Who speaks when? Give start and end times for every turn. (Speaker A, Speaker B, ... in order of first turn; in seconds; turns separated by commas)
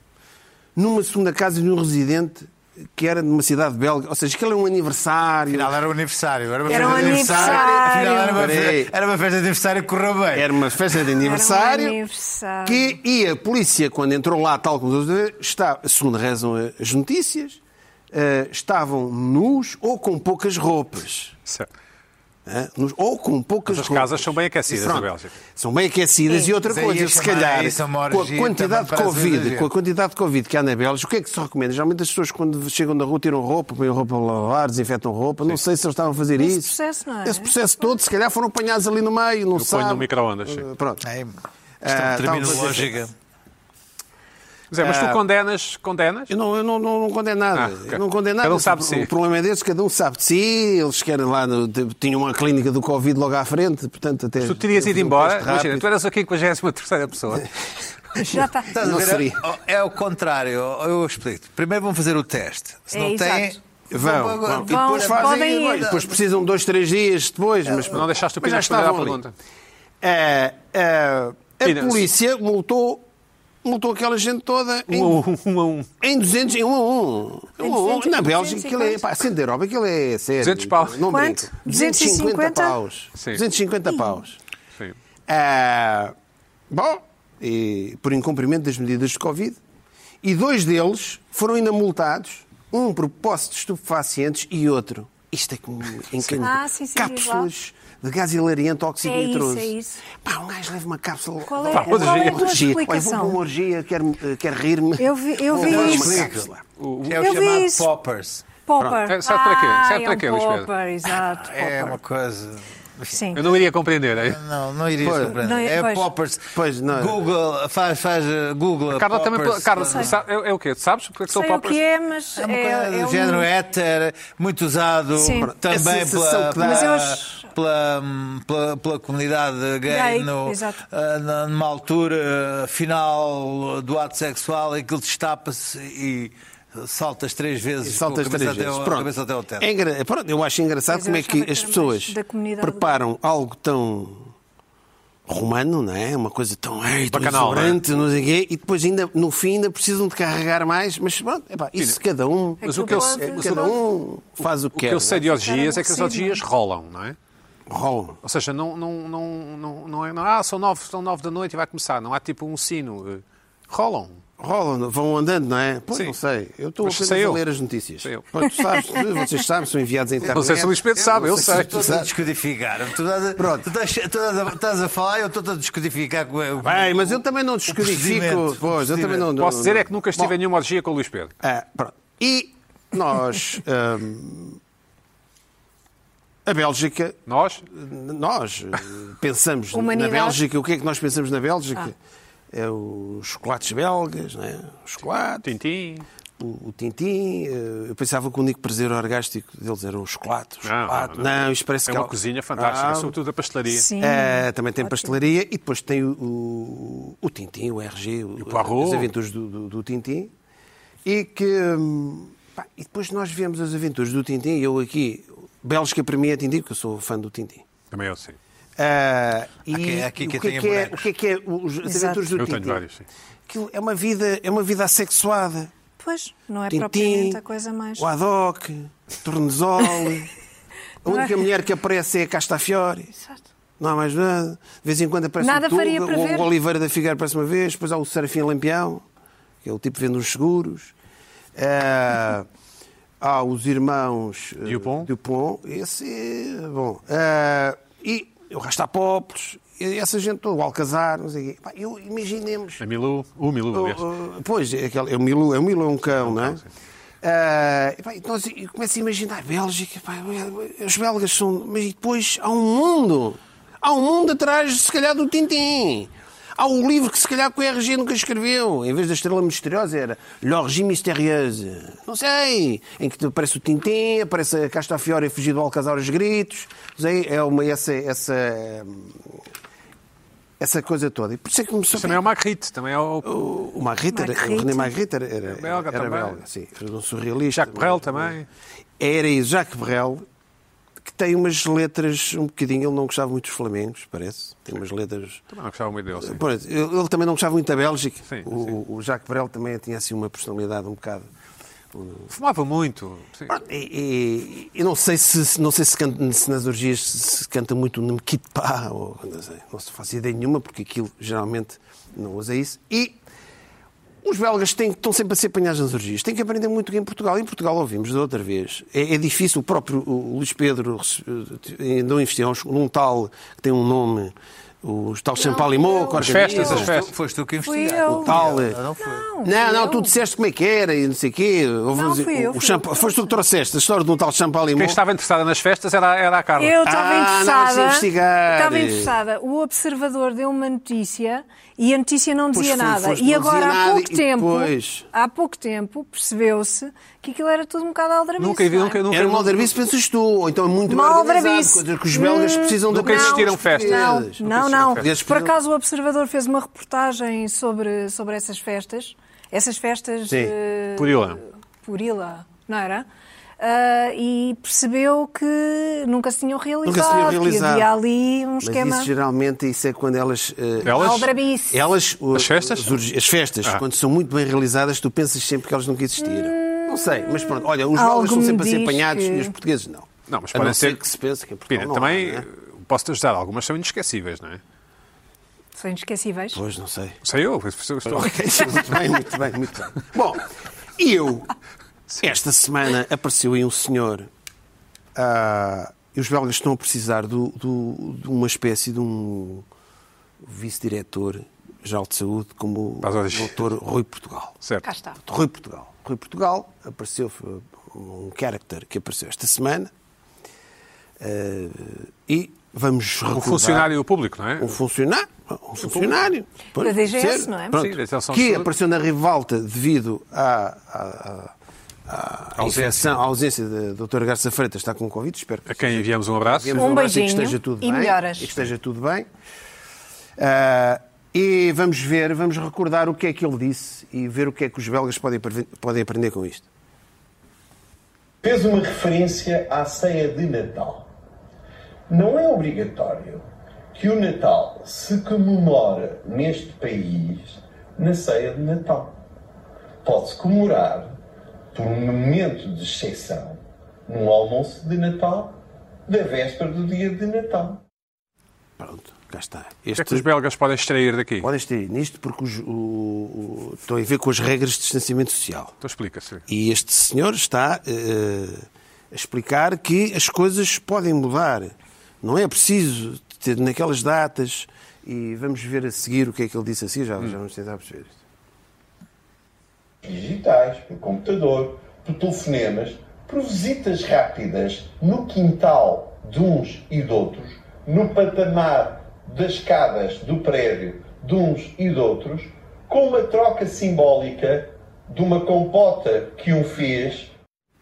Speaker A: 0.8-5.7, Speaker B: 5.5-11.0, Speaker A: 6.7-8.9, Speaker C: 6.7-8.5, Speaker A: 10.3-12.0, Speaker C: 11.2-13.0, Speaker A: 12.6-17.6, Speaker A: 18.1-21.3, Speaker A: 22.4-41.0, Speaker D: 23.7-25.4, Speaker B: 26.6-29.7, Speaker C: 36.4-37.9, Speaker D: 39.5-40.6, Speaker B: 41.0-43.1, Speaker A: 41.8-43.0, Speaker D: 44.7-46.3, Speaker A: 44.8-45.2, Speaker A: 46.3-55.9, Speaker D: 47.5-49.1, Speaker D: 54.4-57.5, Speaker C: 58.2-58.7, Speaker A: 58.2-59.4, Speaker B: 58.7-66.2, Speaker C: 62.9-63.6, Speaker A: 63.9-69.2, Speaker C: 64.5-66.0, Speaker D: 67.7-69.3, Speaker A: 70.0-73.0, Speaker D: 71.6-72.0, Speaker A: 73.6-75.2, Speaker D: 74.9-75.9, Speaker A: 76.0-84.4, Speaker C: 77.6-79.0, Speaker D: 80.4-81.1, Speaker C: 81.1-82.8, Speaker D: 83.2-83.4, Speaker A: 85.3-86.1, Speaker A: 86.7-89.6, Speaker A: 90.2-106.6, Speaker C: 96.3-97.5, Speaker C: 99.0-100.0, Speaker C: 101.5-103.4, Speaker D: 101.7-102.6, Speaker C: 105.0-106.3, Speaker B: 105.5-106.5, Speaker D: 106.8-107.4, Speaker B: 107.0-108.5, Speaker C: 107.2-107.9, Speaker C: 108.7-112.0, Speaker D: 109.1-110.7, Speaker B: 111.2-113.5, Speaker C: 113.1-113.4, Speaker D: 113.3-114.4, Speaker B: 114.2-120.2, Speaker A: 115.0-115.4, Speaker C: 115.4-116.1, Speaker A: 116.5-117.2, Speaker D: 118.9-121.8, Speaker C: 121.3-123.5, Speaker B: 122.3-139.7, Speaker C: 125.2-125.5, Speaker A: 125.4-127.1, Speaker C: 126.6-127.4, Speaker C: 129.9-130.8, Speaker A: 137.8-144.3, Speaker C: 140.9-143.0, Speaker A: 145.3-155.2, Speaker D: 147.1-147.8, Speaker D: 152.6-153.8, Speaker C: 152.6-153.8, Speaker D: 154.7-157.2, Speaker C: 155.2-156.4, Speaker A: 157.7-158.2, Speaker D: 158.2-164.2, Speaker A: 164.4-172.1, Speaker D: 166.8-167.4, Speaker D: 168.0-168.3, Speaker D: 170.2-171.9, Speaker B: 171.1-179.3, Speaker A: 173.4-173.7, Speaker A: 176.6-180.3, Speaker D: 179.3-181.3, Speaker A: 181.4-184.6, Speaker A: 186.4-191.9, Speaker D: 187.3-187.6, Speaker C: 189.7-190.4, Speaker A: 192.5-195.5, Speaker D: 195.4-196.1, Speaker A: 196.4-203.1, Speaker D: 200.6-201.3, Speaker D: 201.8-203.9, Speaker C: 203.7-205.2, Speaker A: 204.0-210.3, Speaker D: 208.4-209.1, Speaker A: 211.0-217.6, Speaker D: 217.9-218.4, Speaker A: 218.8-222.8, Speaker B: 219.7-221.1, Speaker C: 221.8-222.2, Speaker D: 222.3-223.1, Speaker A: 223.5-225.7, Speaker C: 226.0-228.1, Speaker A: 226.7-227.4, Speaker A: 228.0-230.3, Speaker A: 231.0-233.1, Speaker C: 231.1-231.3, Speaker A: 233.8-239.0, Speaker C: 235.4-236.5, Speaker A: 239.6-240.9, Speaker A: 241.6-242.4, Speaker A: 243.2-252.8, Speaker D: 244.6-245.1, Speaker D: 252.8-254.1, Speaker A: 253.7-256.6, Speaker D: 256.1-256.7, Speaker A: 257.2-279.4, Speaker A: 280.6-282.2, Speaker D: 281.9-283.3, Speaker A: 283.2-288.3, Speaker C: 284.1-284.9, Speaker D: 285.5-286.4, Speaker D: 287.5-288.5, Speaker A: 289.0-290.2, Speaker A: 291.0-295.4, Speaker D: 295.5-296.4, Speaker A: 296.2-301.3, Speaker D: 298.3-298.8, Speaker A: 301.9-302.3, Speaker D: 302.3-303.5, Speaker A: 303.5-313.2, Speaker A: 314.2-326.9, Speaker C: 325.3-326.9, Speaker D: 326.1-327.1, Speaker B: 326.5-329.3, Speaker C: 327.6-328.4, Speaker A: 328.1-328.8, Speaker C: 329.0-330.2, Speaker A: 329.4-335.0, Speaker C: 331.9-333.4, Speaker D: 334.7-336.8, Speaker C: 336.6-349.0, Speaker A: 336.8-339.1, Speaker A: 342.5-345.1, Speaker D: 348.4-349.7, Speaker A: 349.1-354.4, Speaker C: 350.9-361.3, Speaker D: 352.9-355.1, Speaker A: 354.9-355.5, Speaker A: 360.3-360.5, Speaker D: 360.9-361.4, Speaker C: 361.8-363.1, Speaker C: 363.6-369.1, Speaker A: 366.8-367.9, Speaker A: 368.6-382.4, Speaker D: 370.8-371.3, Speaker C: 370.8-371.8, Speaker D: 372.3-373.0, Speaker C: 376.2-379.5, Speaker D: 380.3-381.0, Speaker D: 381.7-384.6, Speaker C: 385.8-386.6, Speaker A: 386.5-387.2, Speaker D: 387.2-388.9, Speaker A: 388.1-391.5, Speaker A: 392.2-394.3, Speaker A: 395.1-399.6, Speaker A: 400.4-404.6, Speaker D: 403.0-403.6, Speaker D: 404.6-404.9, Speaker C: 404.8-405.2, Speaker A: 405.2-409.9, Speaker A: 411.2-413.9, Speaker D: 413.3-414.8, Speaker A: 414.6-421.5, Speaker D: 415.8-416.2, Speaker C: 416.8-417.8, Speaker D: 417.7-418.7, Speaker A: 422.1-429.3, Speaker D: 422.6-423.2, Speaker D: 425.7-426.8, Speaker C: 426.7-428.5, Speaker A: 430.4-436.7, Speaker E: 438.4-441.0, Speaker E: 442.1-443.4, Speaker E: 443.9-449.1, Speaker E: 450.0-451.1, Speaker E: 451.7-453.6, Speaker E: 454.1-455.5, Speaker E: 456.1-457.8, Speaker A: 458.8-460.3, Speaker D: 459.9-461.5, Speaker A: 461.4-465.7, Speaker D: 465.8-466.4, Speaker A: 466.5-478.2, Speaker E: 480.0-497.3